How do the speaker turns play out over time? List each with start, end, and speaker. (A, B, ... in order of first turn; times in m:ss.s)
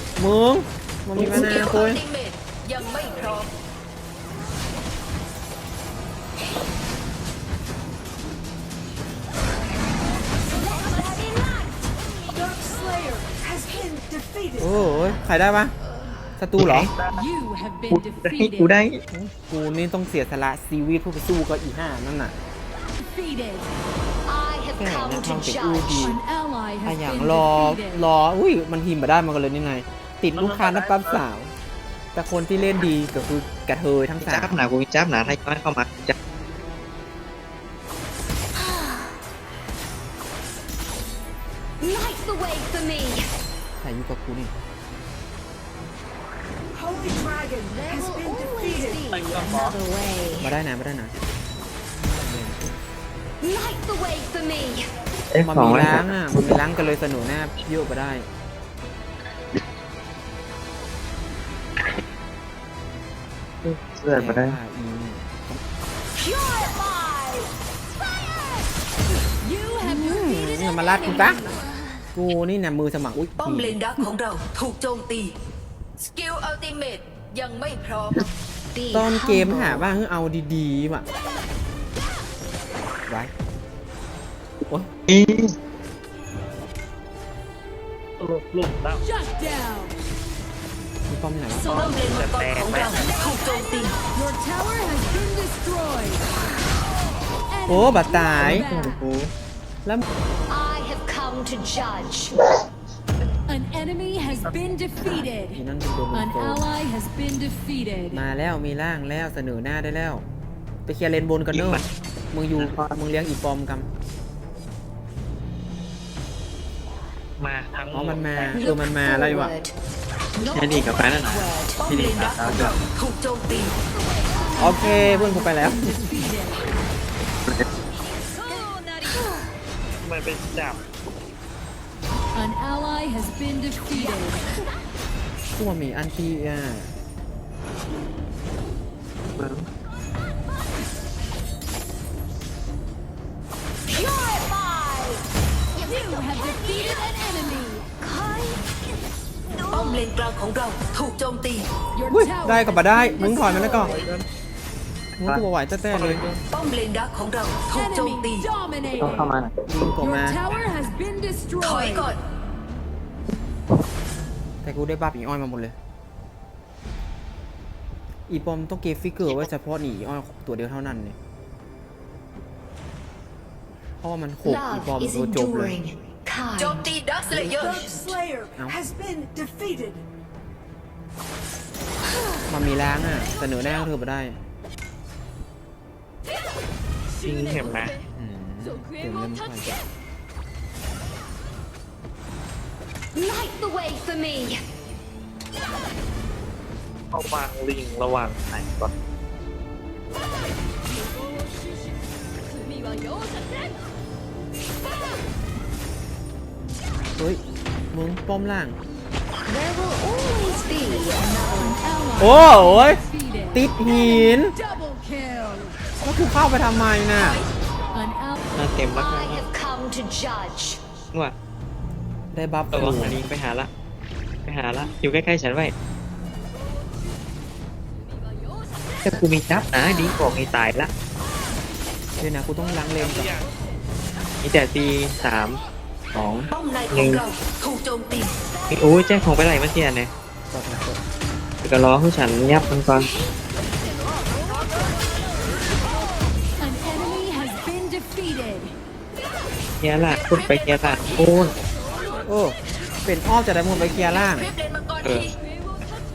0:00.2-0:02.0 A
0:01.2-0:01.6 B
0:01.3-0:03.5 C
0:14.6-0:15.7 A
0:16.4-0:16.9 A
0:16.6-0:16.9 B
0:16.9-0:17.2 D
0:17.2-0:18.7 E
0:17.9-0:19.0 B
0:19.1-0:22.4 A
0:23.0-0:23.7 E
0:24.2-0:26.1 F
0:24.8-0:26.2 A
0:26.0-0:28.0 E
0:26.8-0:31.5 A
0:30.3-0:31.2 D
0:32.1-0:34.6 A
0:34.2-0:36.2 B
0:41.8-0:43.2 F
0:43.8-0:44.5 A
0:47.1-0:50.5 F
0:49.1-0:49.8 D
0:50.4-0:51.1 A
0:52.0-0:52.6 A
0:53.4-0:54.9 F
0:55.3-0:56.1 B
0:55.4-0:58.3 A
1:03.6-1:04.6 B
1:04.1-1:05.6 A
1:06.4-1:06.9 E
1:09.4-1:11.6 E
1:09.8-1:11.4 A
1:12.1-1:13.8 A
1:13.4-1:15.3 C
1:16.0-1:18.3 C
1:18.7-1:19.9 F
1:18.9-1:21.0 A
1:25.1-1:25.5 B
1:28.2-1:29.0 D
1:29.0-1:29.9 E
1:31.1-1:32.0 A
1:31.7-1:33.1 D
1:31.7-1:34.0 C
1:34.0-1:36.2 E
1:37.5-1:39.0 E
1:37.7-1:38.7 A
1:38.4-1:39.3 B
1:40.5-1:42.3 F
1:43.5-1:45.6 E
1:45.0-1:46.6 A
1:46.1-1:48.2 E
1:48.1-1:50.2 A
1:50.8-1:53.9 A
1:51.5-1:51.8 B
1:52.6-1:53.0 B
1:57.4-1:58.6 D
1:57.9-1:59.6 A
1:58.5-1:59.7 F
2:00.4-2:01.8 F
2:00.4-2:02.7 B
2:01.8-2:03.8 C
2:04.6-2:06.7 E
2:04.6-2:06.3 A
2:10.0-2:10.8 D
2:12.4-2:14.4 E
2:15.6-2:16.9 A
2:19.4-2:19.6 B
2:23.9-2:25.2 F
2:25.8-2:27.1 F
2:26.1-2:27.8 E
2:28.0-2:28.7 F
2:29.5-2:30.0 F
2:29.7-2:31.7 C
2:31.9-2:34.0 E
2:32.1-2:34.0 A
2:33.8-2:34.2 D
2:35.2-2:36.2 A
2:35.2-2:36.2 B
2:36.0-2:36.4 D
2:36.5-2:38.5 C
2:37.7-2:39.3 E
2:39.0-2:39.5 B
2:39.7-2:40.4 A
2:40.0-2:42.1 E
2:41.6-2:42.2 C
2:44.6-2:45.8 A
2:48.3-2:51.2 A
2:54.0-2:55.8 A
2:54.4-2:56.9 F
2:56.6-2:57.9 C
2:57.5-2:58.1 F
2:58.6-2:58.8 A
3:02.5-3:04.4 A
3:07.2-3:07.9 D
3:08.1-3:09.8 A
3:13.1-3:14.6 F
3:17.1-3:18.9 D
3:27.2-3:28.8 A
3:29.4-3:32.0 F
3:31.8-3:35.8 E
3:32.2-3:34.5 A
3:36.0-3:37.4 A
3:37.2-3:37.5 C
3:37.9-3:38.4 E
3:38.6-3:39.4 B
3:38.9-3:40.8 F
3:42.3-3:43.2 A
3:42.7-3:43.7 B
3:44.4-3:45.7 B
3:49.0-3:50.9 B
3:52.2-3:53.4 A
3:53.0-3:53.4 D
3:54.4-3:55.6 B
3:56.1-3:57.2 B
3:56.5-3:58.4 C
3:58.7-4:00.1 B
4:00.5-4:01.0 A
4:01.6-4:03.1 B
4:06.6-4:08.7 E
4:09.8-4:11.6 B
4:10.0-4:11.3 C
4:12.3-4:14.5 A
4:14.0-4:15.4 C
4:15.0-4:15.3 B